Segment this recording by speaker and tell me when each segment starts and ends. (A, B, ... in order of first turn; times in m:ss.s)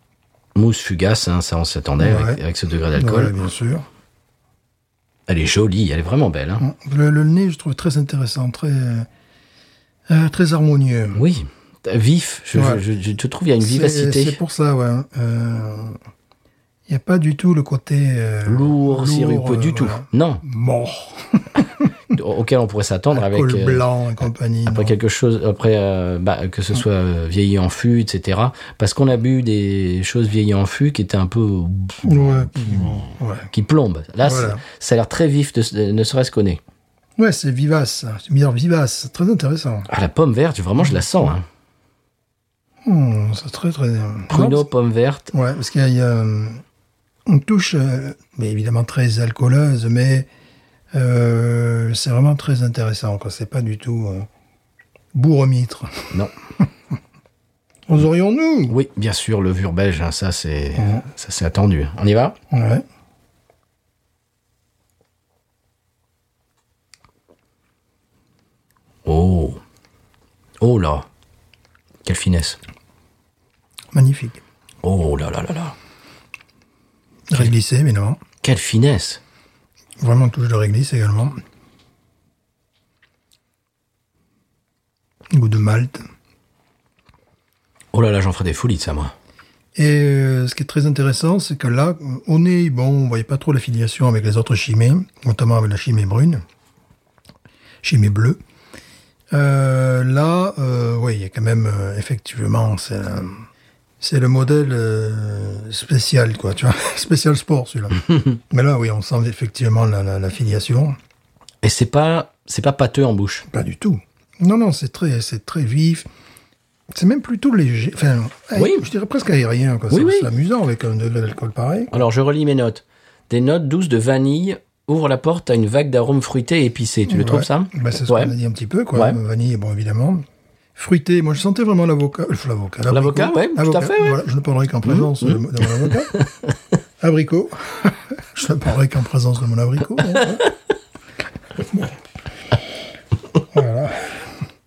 0:00.5-0:03.3 A
0:02.0-0:02.4 B
0:02.9-0:03.8 B
0:05.3-0:06.6 A
0:06.6-0:09.1 B
0:10.1-0:11.2 B
0:11.1-0:14.4 A
0:12.5-0:12.8 B
0:13.6-0:16.0 B
0:16.9-0:21.9 B
0:18.4-0:20.4 A
0:22.1-0:23.8 A
0:23.1-0:24.9 B
0:24.6-0:36.6 A
0:32.0-0:33.5 B
0:34.2-0:34.6 B
0:37.2-0:39.9 B
0:39.9-0:41.4 A
0:42.8-0:44.7 B
0:44.3-0:45.3 A
0:45.3-0:46.6 B
0:47.3-0:50.3 B
0:50.9-0:54.3 B
0:55.1-0:56.6 B
0:57.9-0:58.7 B
0:58.7-1:02.4 A
1:00.8-1:01.0 B
1:02.5-1:02.8 B
1:09.0-1:09.6 A
1:10.6-1:11.1 A
1:12.0-1:12.6 A
1:13.9-1:14.4 B
1:14.8-1:15.7 A
1:17.3-1:18.2 B
1:18.4-1:19.2 A
1:20.0-1:21.4 B
1:25.3-1:26.0 B
1:27.9-1:29.1 A
1:29.7-1:36.4 B
1:37.8-1:38.4 B
1:39.3-1:43.4 B
1:44.0-1:51.0 B
1:51.6-1:53.4 A
1:53.5-1:56.0 B
1:56.9-2:01.9 B
1:58.6-1:58.8 A
1:59.9-2:00.3 A
2:01.9-2:08.3 A
2:07.1-2:16.1 B
2:12.9-2:14.2 A
2:14.8-2:16.5 A
2:17.0-2:20.4 B
2:23.5-2:24.3 B